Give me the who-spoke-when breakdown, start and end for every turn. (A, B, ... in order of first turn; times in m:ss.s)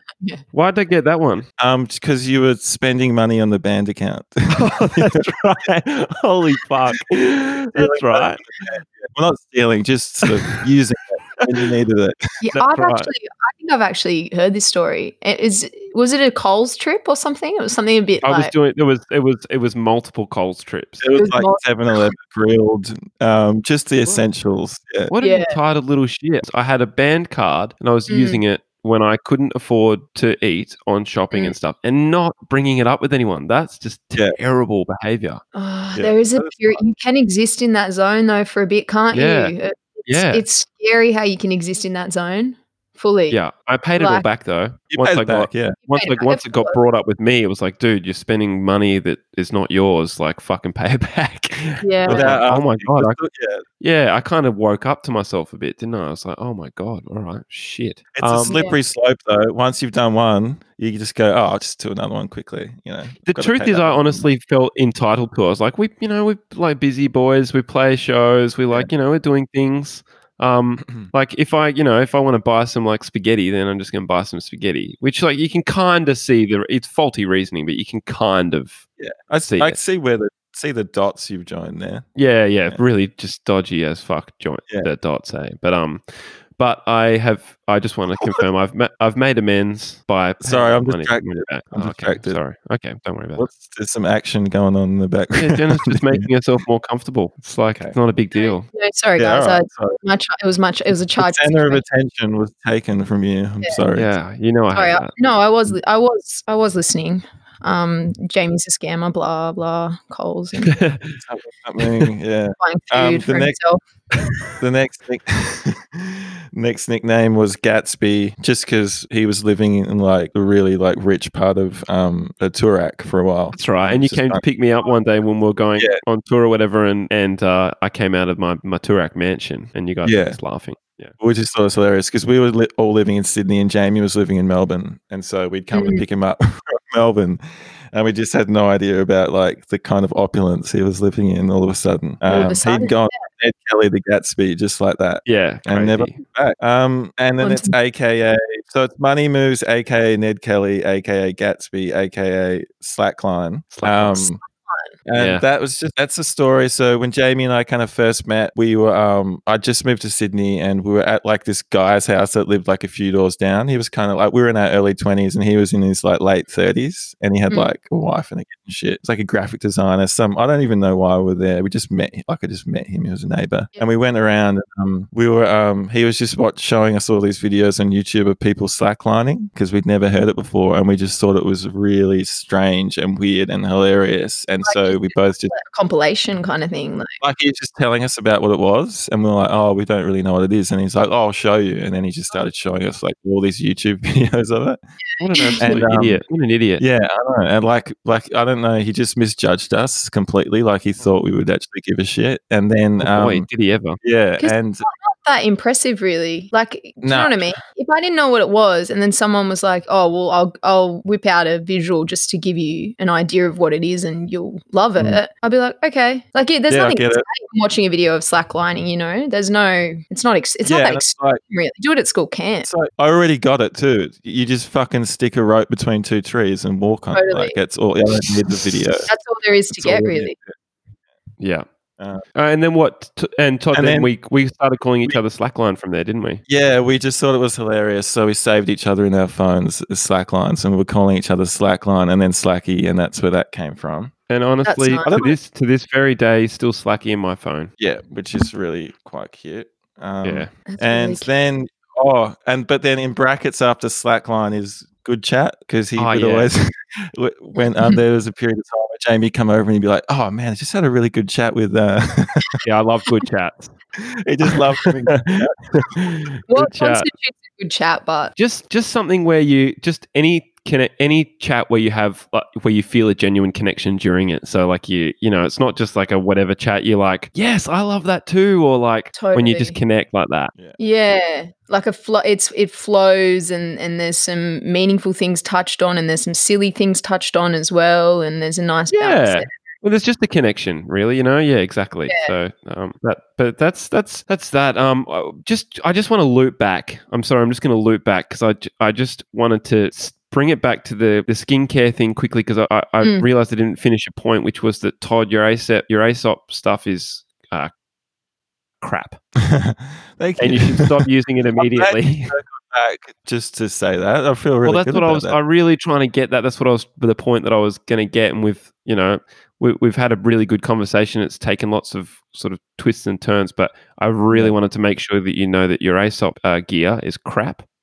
0:00.5-0:01.5 A
0:01.6-0:05.2 B
0:04.5-0:08.4 A
0:07.8-0:12.3 B
0:10.2-0:10.7 A
0:11.4-0:11.7 A
0:12.4-0:18.5 C
0:12.5-0:13.1 A
0:18.2-0:21.0 A
0:21.0-0:25.1 B
0:21.2-0:22.1 C
0:25.1-0:35.4 A
0:25.2-0:25.6 C
0:28.1-0:28.4 C
0:35.5-0:43.4 C
0:36.0-0:36.8 B
0:39.1-0:39.5 A
0:40.1-0:40.4 A
0:43.3-0:53.2 A
0:44.0-0:44.3 C
0:44.9-0:45.8 B
0:45.9-0:46.8 C
0:51.8-0:52.4 C
0:52.1-0:53.6 B
0:53.8-0:58.6 A
0:58.2-1:04.3 B
0:58.5-0:58.8 C
1:03.3-1:18.8 A
1:19.0-1:22.1 B
1:19.5-1:19.8 A
1:22.2-1:33.4 A
1:30.4-1:32.4 B
1:33.4-1:36.3 B
1:35.4-1:38.7 A
1:38.4-1:41.8 C
1:39.2-1:40.0 B
1:41.2-1:44.1 B
1:43.9-1:45.1 A
1:44.7-1:50.8 C
1:50.6-1:51.2 A
1:51.2-1:53.6 B
1:51.8-1:52.1 A
1:52.6-1:53.8 C
1:54.6-2:04.4 B
2:03.5-2:11.1 A
2:10.0-2:10.4 B
2:11.2-2:34.4 B
2:15.7-2:16.0 C
2:22.3-2:23.2 C
2:25.3-2:26.2 A
2:27.4-2:27.7 C
2:33.7-2:34.2 A
2:34.4-2:34.9 C
2:35.1-3:05.5 B
2:35.2-2:35.4 A
3:04.6-3:07.2 C
3:07.2-3:14.8 B
3:15.1-3:15.8 C
3:15.2-3:16.8 A
3:15.6-3:16.2 B
3:16.8-3:23.5 B
3:23.0-3:24.0 A
3:24.0-3:24.9 B
3:24.4-3:42.7 C
3:27.0-3:27.5 B
3:36.7-3:37.2 B
3:40.6-3:41.4 B
3:42.6-3:49.1 B
3:47.1-3:47.6 C
3:49.1-3:50.4 C
3:49.8-3:50.5 B
3:51.4-3:51.7 A
3:52.4-3:56.4 A
3:53.7-3:54.1 B
3:56.5-4:04.1 B
4:04.3-4:07.7 A
4:04.6-4:05.2 C
4:05.0-4:05.4 B
4:07.8-4:22.6 B
4:10.2-4:10.5 A
4:10.7-4:11.3 C
4:16.0-4:16.5 A
4:22.6-4:23.7 A
4:24.0-4:25.8 B
4:24.9-4:27.1 A
4:26.5-4:28.3 C
4:28.4-4:40.5 A
4:39.1-4:39.8 C
4:40.8-4:49.5 C
4:48.9-5:07.7 A
5:08.8-5:09.2 A
5:09.4-5:11.0 B
5:10.4-5:12.4 A
5:11.6-5:15.4 B
5:14.6-5:27.6 A